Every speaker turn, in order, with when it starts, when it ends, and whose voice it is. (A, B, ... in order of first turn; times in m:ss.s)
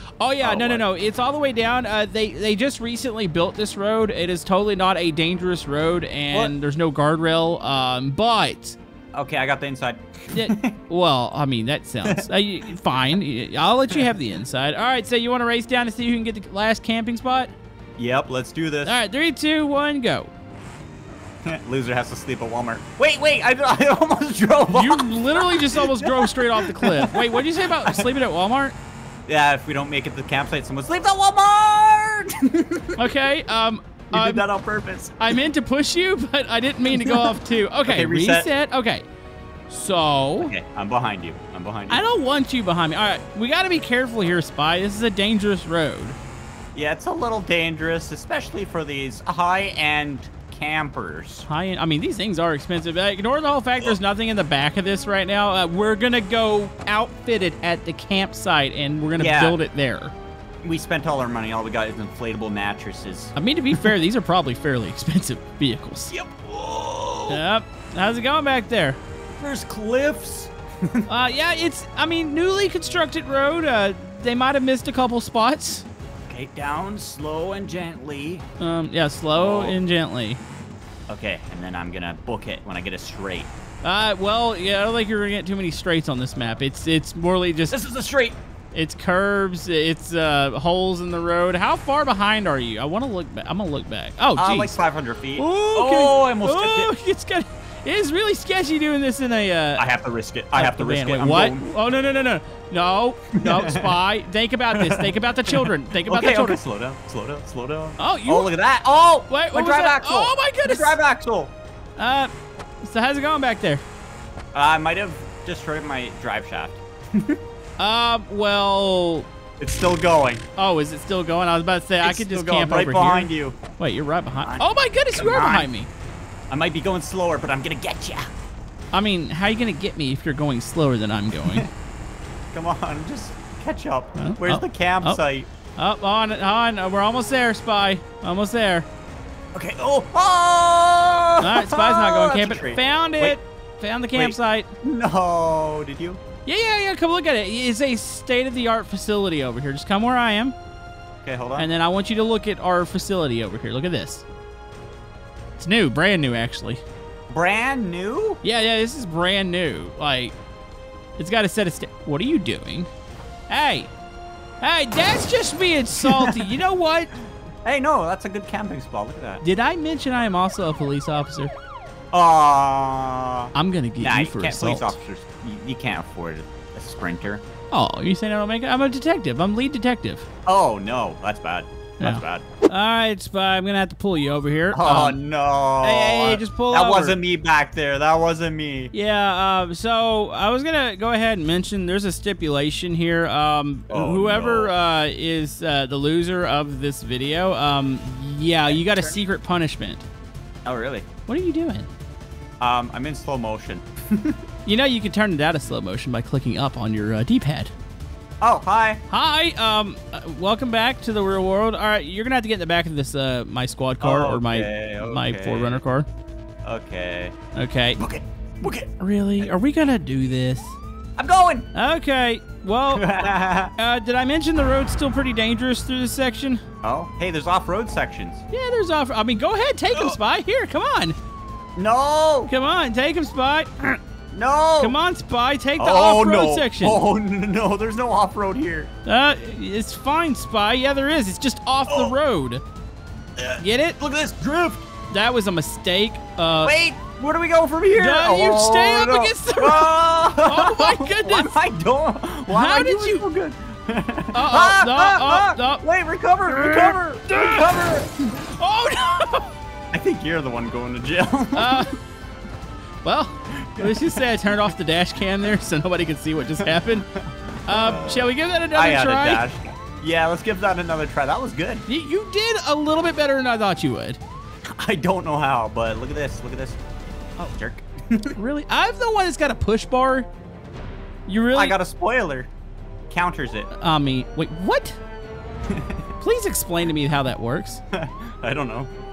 0:00.2-0:08.8 A
0:00.4-0:00.8 B
0:09.2-0:10.8 B
0:10.3-0:17.5 A
0:18.0-0:19.0 B
0:18.8-0:20.3 A
0:21.5-0:28.1 B
0:24.7-0:28.8 A
0:29.3-0:33.0 B
0:33.0-0:34.4 A
0:34.1-0:35.4 B
0:35.2-0:39.0 A
0:36.9-0:38.5 B
0:39.7-0:40.5 A
0:40.4-0:42.0 B
0:41.9-0:46.2 A
0:46.8-0:51.5 B
0:51.5-1:00.1 A
0:59.2-0:59.6 B
1:00.6-1:03.9 B
1:03.4-1:06.1 A
1:06.1-1:07.4 B
1:07.3-1:09.0 A
1:09.4-1:11.1 B
1:11.1-1:15.9 A
1:16.3-1:18.5 B
1:18.6-1:20.4 A
1:19.4-1:19.8 B
1:21.1-1:23.5 B
1:23.8-1:27.8 A
1:27.7-1:28.4 B
1:28.7-1:34.7 A
1:34.4-1:36.9 B
1:35.4-1:39.8 A
1:39.8-1:41.8 B
1:40.5-1:46.6 A
1:43.4-1:44.0 B
1:44.7-1:51.5 B
1:48.0-1:48.5 A
1:49.3-1:51.0 A
1:52.0-1:52.3 A
1:52.8-1:53.8 A
1:54.5-1:57.4 B
1:57.8-1:59.3 A
1:59.6-2:00.4 B
2:00.6-2:05.9 A
2:02.0-2:03.6 B
2:04.4-2:05.7 B
2:06.5-2:08.3 B
2:08.9-2:11.7 A
2:12.5-2:15.5 B
2:14.2-2:15.2 A
2:15.8-2:18.9 A
2:19.5-2:23.4 B
2:21.4-2:24.7 A
2:24.1-2:26.2 B
2:26.5-2:30.6 A
2:31.2-2:31.7 B
2:31.6-2:34.3 A
2:35.6-2:36.8 A
2:37.3-2:38.4 B
2:38.4-2:40.4 A
2:41.2-2:42.9 A
2:43.5-2:43.9 A
2:44.6-2:47.1 A
2:46.0-2:46.6 B
2:47.6-2:49.4 B
2:49.4-2:51.5 A
2:52.1-2:57.4 B
2:53.5-2:55.0 A
2:57.7-3:00.3 A
3:00.5-3:02.4 B
3:02.0-3:05.2 A
3:04.7-3:08.9 B
3:05.8-3:07.2 A
3:08.9-3:20.0 A
3:13.9-3:14.7 B
3:18.7-3:19.2 B
3:20.6-3:21.1 B
3:21.3-3:21.9 A
3:22.6-3:24.4 B
3:24.7-3:27.7 A
3:28.4-3:29.0 B
3:29.1-3:36.1 A
3:34.0-3:35.8 B
3:36.6-3:37.4 B
3:37.6-3:38.0 A
3:38.0-3:39.5 B
3:39.0-3:40.8 A
3:41.2-3:41.7 B
3:41.8-3:43.1 A
3:42.9-3:43.7 B
3:43.8-3:46.6 A
3:46.8-3:48.4 B
3:48.5-3:51.2 A
3:49.9-3:50.2 B
3:51.8-3:52.5 B
3:52.5-3:54.0 A
3:54.3-3:55.0 B
3:54.8-3:57.0 A
3:55.8-3:58.9 B
3:59.1-4:02.6 A
4:01.9-4:02.2 B
4:03.4-4:04.8 B
4:03.6-4:04.0 A
4:05.1-4:06.7 A
4:06.6-4:18.2 B
4:08.0-4:11.6 A
4:12.5-4:13.2 A
4:14.3-4:15.8 A
4:16.5-4:17.8 A
4:18.4-4:19.5 A
4:19.9-4:21.9 B
4:21.6-4:22.0 A
4:23.0-4:27.1 A
4:23.7-4:24.7 B
4:26.6-4:31.9 B
4:27.7-4:29.4 A
4:31.9-4:34.2 A
4:34.7-4:36.8 B
4:37.4-4:38.4 B
4:38.4-4:40.3 A
4:41.3-4:41.8 A
4:41.5-4:42.5 B
4:43.1-4:43.7 B
4:43.7-4:45.0 A
4:45.7-4:46.0 B
4:46.2-4:47.8 A
4:47.9-4:48.9 B